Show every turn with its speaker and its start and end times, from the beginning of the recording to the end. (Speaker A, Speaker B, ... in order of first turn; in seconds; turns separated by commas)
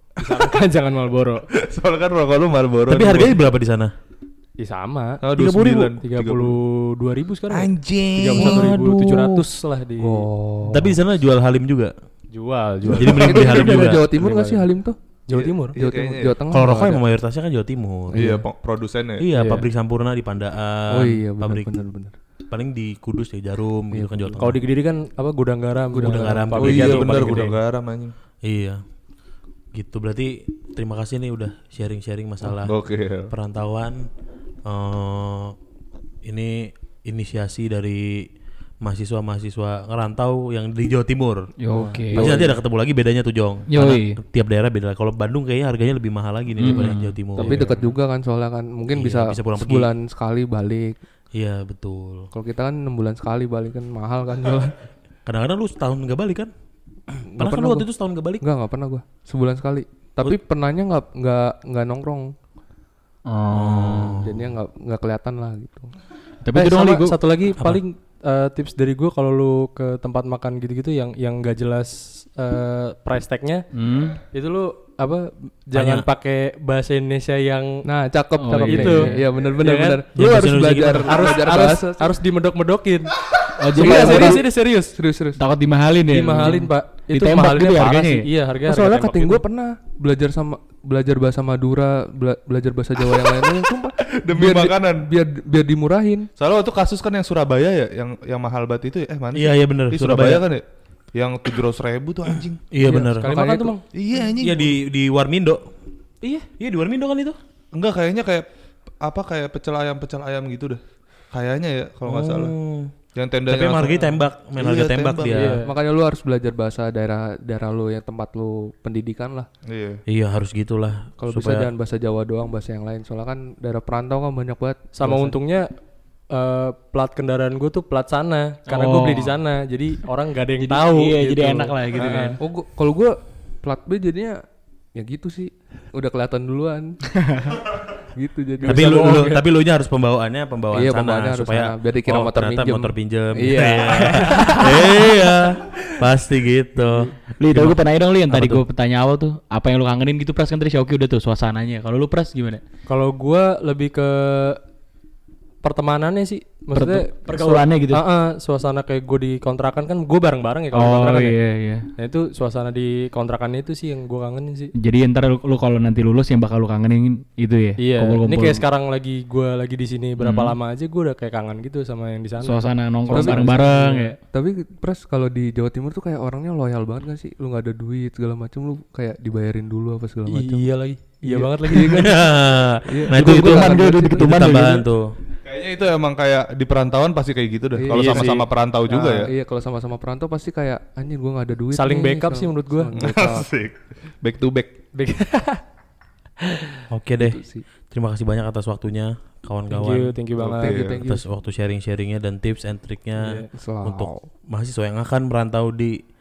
Speaker A: 0.2-1.4, Speaker B: 0.2-0.6, Speaker B: 1.5-3.5, Speaker C: 2.9-3.9, Speaker A: 4.6-5.2, Speaker B: 5.2-6.6, Speaker C: 5.3-5.9, Speaker A: 6.0-10.3, Speaker B: 7.5-8.8, Speaker C: 8.3-9.5, Speaker D: 10.0-11.0, Speaker C: 10.7-11.9, Speaker A: 12.3-14.7, Speaker C: 12.9-14.1, Speaker D: 13.0-15.0, Speaker B: 13.0-13.4, Speaker A: 15.3-15.8, Speaker B: 15.3-16.3, Speaker D: 15.8-17.0, Speaker C: 16.5-18.3, Speaker D: 18.1-18.4, Speaker B: 18.1-19.3, Speaker C: 19.2-21.7, Speaker A: 19.3-19.6, Speaker D: 20.9-22.2, Speaker C: 22.5-24.6, Speaker D: 23.9-24.4, Speaker A: 24.4-27.6, Speaker D: 25.9-26.4, Speaker C: 26.0-27.5, Speaker B: 26.6-28.1, Speaker C: 28.4-28.8, Speaker C: 29.8-32.7, Speaker B: 32.5-33.3, Speaker C: 33.3-34.1, Speaker C: 34.6-35.6, Speaker C: 36.2-38.3, Speaker C: 38.8-41.5, Speaker E: 41.6-42.3, Speaker D: 41.7-42.6, Speaker C: 42.1-47.6, Speaker E: 43.7-44.2, Speaker E: 46.6-47.1, Speaker A: 47.4-47.9, Speaker D: 47.4-51.0, Speaker C: 48.9-49.9, Speaker C: 51.4-52.3, Speaker D: 52.3-54.8, Speaker C: 55.3-56.5, Speaker D: 57.3-57.9, Speaker C: 57.4-58.4, Speaker D: 58.4-62.3, Speaker E: 63.3-64.2, Speaker C: 63.5-64.5, Speaker D: 64.1-65.9, Speaker E: 66.4-67.8, Speaker A: 66.5-73.6, Speaker E: 73.7-74.2, Speaker A: 74.2-77.9, Speaker C: 75.8-76.0, Speaker D: 77.9-82.2, Speaker E: 78.4-79.2, Speaker A: 78.5-80.0, Speaker C: 80.2-81.3, Speaker A: 81.0-83.1, Speaker E: 83.6-84.4, Speaker A: 83.7-85.0, Speaker D: 83.8-85.4, Speaker E: 85.4-88.3, Speaker A: 86.1-89.4, Speaker D: 88.7-96.3, Speaker B: 94.2-95.1, Speaker B: 96.4-102.7, Speaker C: 99.3-100.5, Speaker C: 102.7-103.3, Speaker A: 102.8-103.8, Speaker D: 102.8-103.8, Speaker B: 103.9-104.8, Speaker C: 104.4-105.7, Speaker A: 106.2-106.5, Speaker C: 106.6-107.4, Speaker B: 107.7-108.5, Speaker B: 109.0-110.8, Speaker B: 111.3-112.5, Speaker C: 112.0-112.9, Speaker B: 113.2-115.6, Speaker C: 113.5-115.6, Speaker A: 115.3-115.7, Speaker D: 115.6-119.5, Speaker B: 119.7-120.0, Speaker C: 120.1-121.7, Speaker D: 121.2-125.3, Speaker A: 124.9-125.7, Speaker A: 126.3-132.4, Speaker E: 128.7-129.4, Speaker E: 130.6-132.4, Speaker D: 132.4-134.4, Speaker D: 134.9-137.0, Speaker E: 137.2-137.6, Speaker D: 138.2-139.4, Speaker C: 138.6-147.8, Speaker A: 138.7-139.1, Speaker D: 140.7-144.7, Speaker E: 144.3-144.5, Speaker E: 147.4-152.6, Speaker C: 148.3-148.6, Speaker A: 152.9-154.6, Speaker A: 155.6-161.4, Speaker E: 156.7-158.1, Speaker E: 160.7-161.9, Speaker A: 162.0-164.7, Speaker E: 164.8-168.6, Speaker A: 167.8-174.2, Speaker E: 170.2-170.6, Speaker E: 172.4-174.2, Speaker D: 173.1-173.4, Speaker D: 174.3-180.7, Speaker A: 180.3-182.3, Speaker D: 181.2-184.3, Speaker C: 181.9-185.1, Speaker E: 183.1-184.8, Speaker B: 185.4-189.3, Speaker D: 187.8-193.5, Speaker A: 187.9-188.5, Speaker A: 191.7-192.9, Speaker B: 192.9-194.8, Speaker A: 194.9-195.6, Speaker A: 196.4-196.8, Speaker C: 196.9-200.2, Speaker D: 197.2-197.6, Speaker A: 199.7-200.8, Speaker B: 200.4-201.0, Speaker D: 200.6-201.2, Speaker C: 201.0-206.0, Speaker A: 203.2-203.5, Speaker D: 203.5-204.3